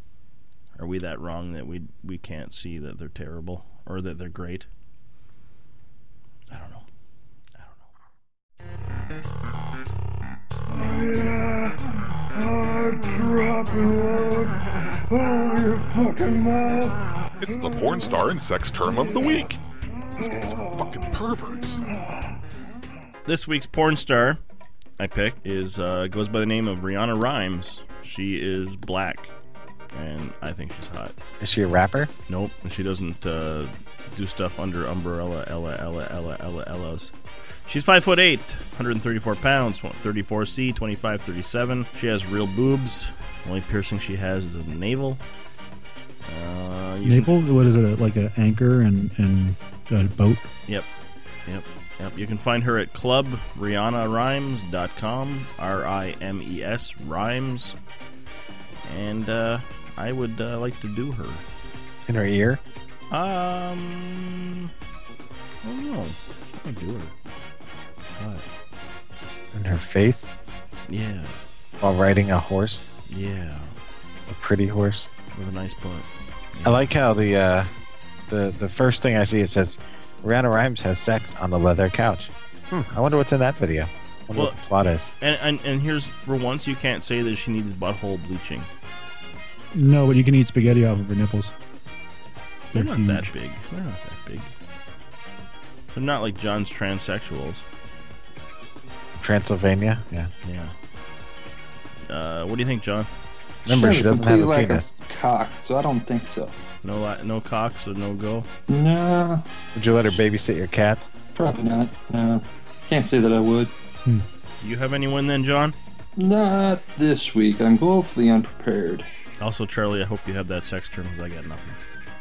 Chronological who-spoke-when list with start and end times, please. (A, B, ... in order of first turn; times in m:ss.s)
0:00.8-0:04.7 A
0:06.5-0:06.8 A
0:07.6-0:07.9 A
0:17.4-0:19.6 B
0:20.1-0:21.8 B
0:23.2-0:24.4 A
0:25.0-0:29.3 A
0:29.9-0:31.1 A
0:31.4-0:32.1 C
0:32.3-0:37.1 A
0:37.6-0:45.2 A
0:46.2-0:47.3 A
0:47.0-0:50.5 D
0:51.5-0:57.7 A
0:58.8-1:01.4 A
1:02.0-1:02.6 C
1:03.1-1:04.7 A
1:05.6-1:07.1 A
1:08.2-1:08.4 A
1:09.5-1:10.3 C
1:10.9-1:11.4 A
1:11.8-1:12.9 C
1:13.1-1:13.7 A
1:14.3-1:15.1 C
1:15.3-1:16.9 A
1:16.6-1:17.7 C
1:18.3-1:25.1 C
1:25.2-1:28.7 A
1:29.7-1:31.5 D
1:32.7-1:33.3 D
1:32.7-1:34.5 A
1:35.9-1:37.6 A
1:39.2-1:40.3 C
1:40.4-1:40.7 A
1:42.1-1:43.1 A
1:43.6-1:46.5 E
1:43.7-1:44.9 C
1:46.8-1:48.5 A
1:48.7-1:49.4 E
1:49.7-1:51.1 C
1:51.3-1:53.7 E
1:54.6-1:55.8 A
1:56.2-1:59.1 E
1:59.4-2:01.8 A